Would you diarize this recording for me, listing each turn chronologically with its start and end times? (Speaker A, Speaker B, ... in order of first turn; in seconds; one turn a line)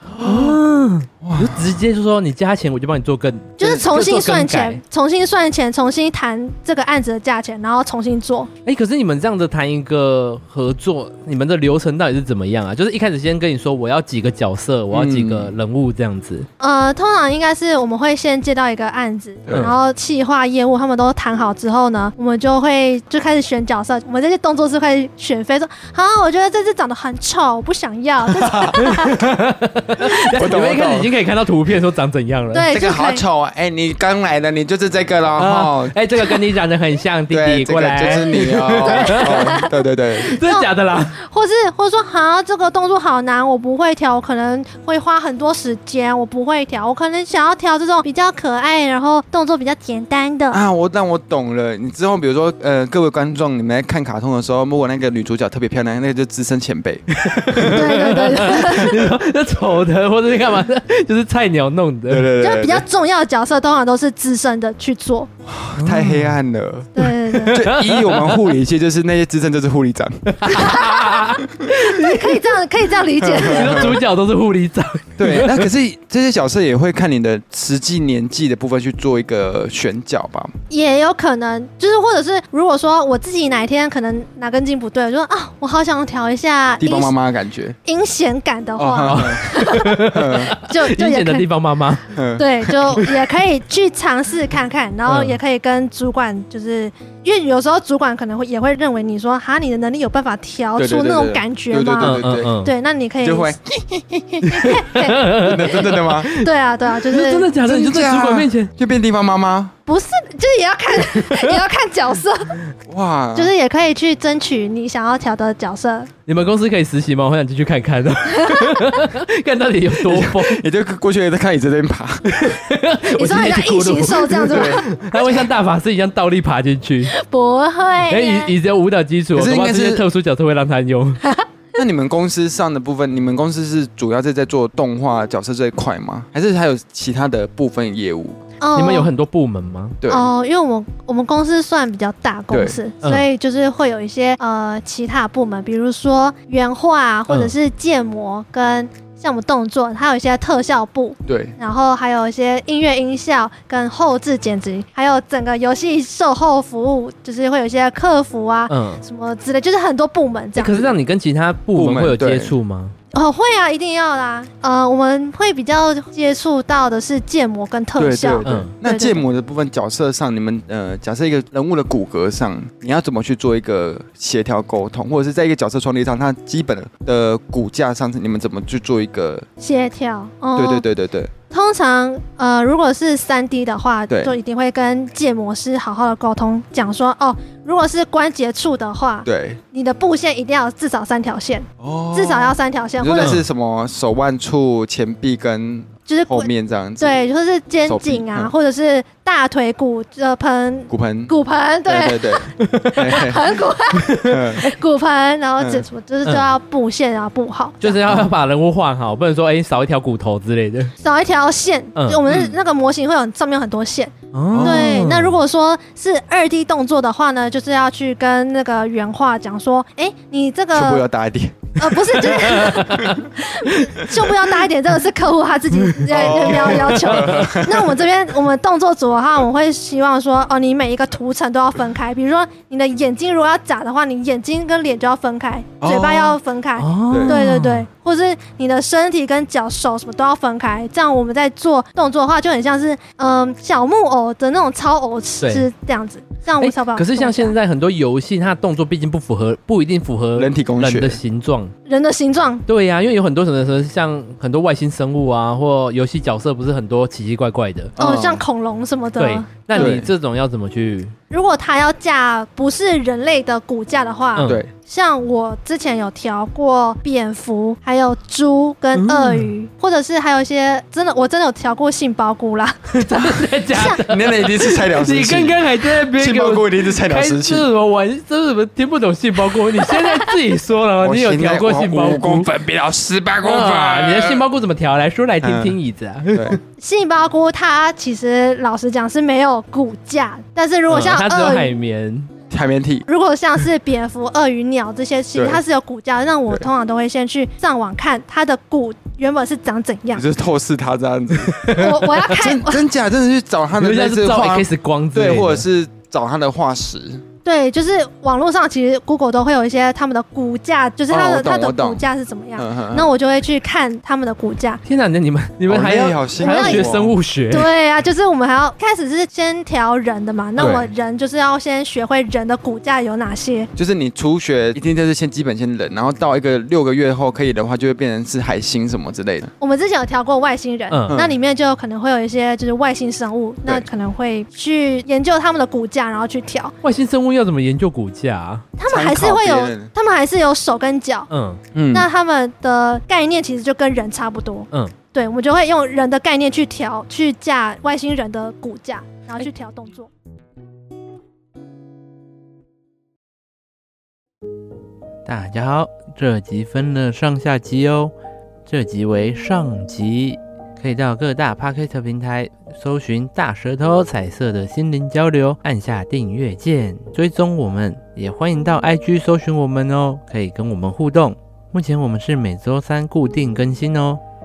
Speaker A: 0.1-0.6
Speaker B: 0.2-4.8
Speaker A: 1.2-1.7
Speaker C: 3.6-8.5
Speaker B: 8.6-16.5
Speaker A: 14.9-15.5
Speaker C: 16.6-29.2
Speaker A: 19.4-19.7
Speaker A: 28.3-28.8
Speaker B: 28.8-32.7
Speaker A: 30.3-31.1
Speaker C: 32.5-33.2
Speaker A: 32.7-35.9
Speaker B: 35.4-39.7
Speaker A: 37.3-40.4
Speaker C: 38.3-39.7
Speaker B: 40.2-41.1
Speaker C: 40.4-50.6
Speaker A: 50.5-58.9
Speaker B: 57.1-62.3
Speaker C: 57.7-59.0
Speaker A: 62.1-62.8
Speaker C: 62.4-65.3
Speaker A: 65.5-66.9
Speaker B: 65.8-66.4
Speaker C: 66.9-67.6
Speaker B: 67.0-68.5
Speaker A: 67.5-70.8
Speaker B: 70.3-72.4
Speaker C: 70.5-74.0
Speaker A: 73.2-73.9
Speaker B: 73.4-75.7
Speaker A: 75.2-80.5
Speaker C: 80.7-87.1
Speaker A: 86.8-87.8
Speaker C: 87.8-91.5
Speaker A: 88.8-89.5
Speaker B: 89.1-92.0
Speaker A: 90.0-90.5
Speaker A: 92.1-92.5
Speaker C: 92.4-103.5
Speaker B: 92.7-93.2
Speaker B: 95.1-95.4
Speaker A: 100.8-102.5
Speaker B: 102.0-102.7
Speaker A: 103.2-106.3
Speaker C: 104.5-107.5
Speaker B: 104.8-108.7
Speaker A: 107.6-109.7
Speaker C: 109.9-112.6
Speaker B: 111.1-111.6
Speaker A: 112.9-113.5
Speaker C: 113.4-116.1
Speaker B: 116.3-120.6
Speaker C: 118.3-119.0
Speaker A: 120.0-122.2
Speaker B: 122.2-127.1
Speaker C: 123.1-125.5
Speaker A: 124.5-124.8
Speaker C: 127.1-128.5
Speaker B: 128.1-131.2
Speaker A: 129.3-130.1
Speaker A: 131.8-138.4
Speaker C: 138.6-139.1
Speaker B: 138.8-140.0
Speaker A: 140.0-140.3
Speaker C: 140.1-160.9
Speaker A: 142.5-142.8
Speaker A: 151.3-151.6
Speaker B: 158.7-159.0
Speaker B: 160.6-162.9
Speaker A: 161.8-162.5
Speaker C: 163.1-169.2
Speaker A: 168.0-179.4
Speaker B: 168.4-168.7
Speaker C: 179.6-180.8
Speaker A: 180.6-181.3
Speaker C: 181.5-193.4
Speaker A: 184.1-184.3
Speaker A: 189.2-189.6
Speaker A: 191.8-197.2
Speaker B: 193.2-193.4
Speaker C: 196.1-196.5
Speaker C: 197.0-208.0
Speaker A: 197.9-198.5
Speaker A: 200.9-201.3
Speaker A: 201.9-203.6
Speaker B: 202.6-203.2
Speaker B: 203.9-204.5
Speaker A: 204.1-204.6
Speaker A: 205.6-205.9
Speaker B: 206.2-206.5
Speaker B: 207.8-210.9
Speaker C: 211.0-221.0
Speaker B: 211.9-212.3
Speaker B: 214.3-215.4
Speaker A: 214.5-215.1
Speaker A: 220.7-223.2
Speaker C: 221.8-247.6
Speaker B: 222.3-223.2
Speaker B: 225.9-227.6
Speaker A: 226.1-228.0
Speaker A: 235.8-236.4
Speaker B: 236.8-237.9
Speaker A: 237.1-237.4
Speaker B: 245.4-245.7
Speaker B: 246.6-251.7
Speaker A: 250.4-251.2
Speaker C: 251.9-252.6
Speaker B: 252.7-257.9
Speaker A: 258.0-258.4
Speaker C: 258.0-259.9
Speaker B: 259.2-261.1
Speaker A: 259.7-260.1
Speaker C: 261.3-274.0
Speaker B: 264.4-264.6
Speaker A: 264.4-264.7
Speaker B: 268.9-269.5
Speaker B: 272.9-282.5
Speaker A: 273.8-277.6
Speaker C: 279.9-280.1
Speaker A: 281.0-284.4
Speaker B: 283.4-286.6
Speaker A: 285.4-285.8
Speaker A: 286.3-286.6
Speaker C: 286.8-291.7
Speaker B: 290.9-292.3
Speaker A: 292.5-293.1
Speaker C: 293.1-300.2
Speaker A: 295.4-295.6
Speaker A: 300.1-307.2
Speaker B: 301.4-302.4
Speaker C: 301.7-302.8
Speaker B: 303.8-305.6
Speaker C: 307.4-314.8
Speaker A: 311.1-312.0
Speaker A: 312.6-313.1
Speaker B: 314.9-317.7
Speaker A: 315.7-317.1
Speaker C: 316.4-323.7
Speaker A: 320.6-320.9
Speaker A: 323.8-329.5
Speaker C: 329.6-336.7
Speaker B: 330.9-331.2
Speaker A: 331.1-331.4
Speaker B: 336.8-338.7
Speaker C: 338.8-341.3
Speaker A: 338.9-339.9
Speaker B: 341.3-341.6
Speaker A: 341.7-342.1
Speaker C: 341.9-350.1
Speaker B: 355.3-358.1
Speaker B: 358.7-374.2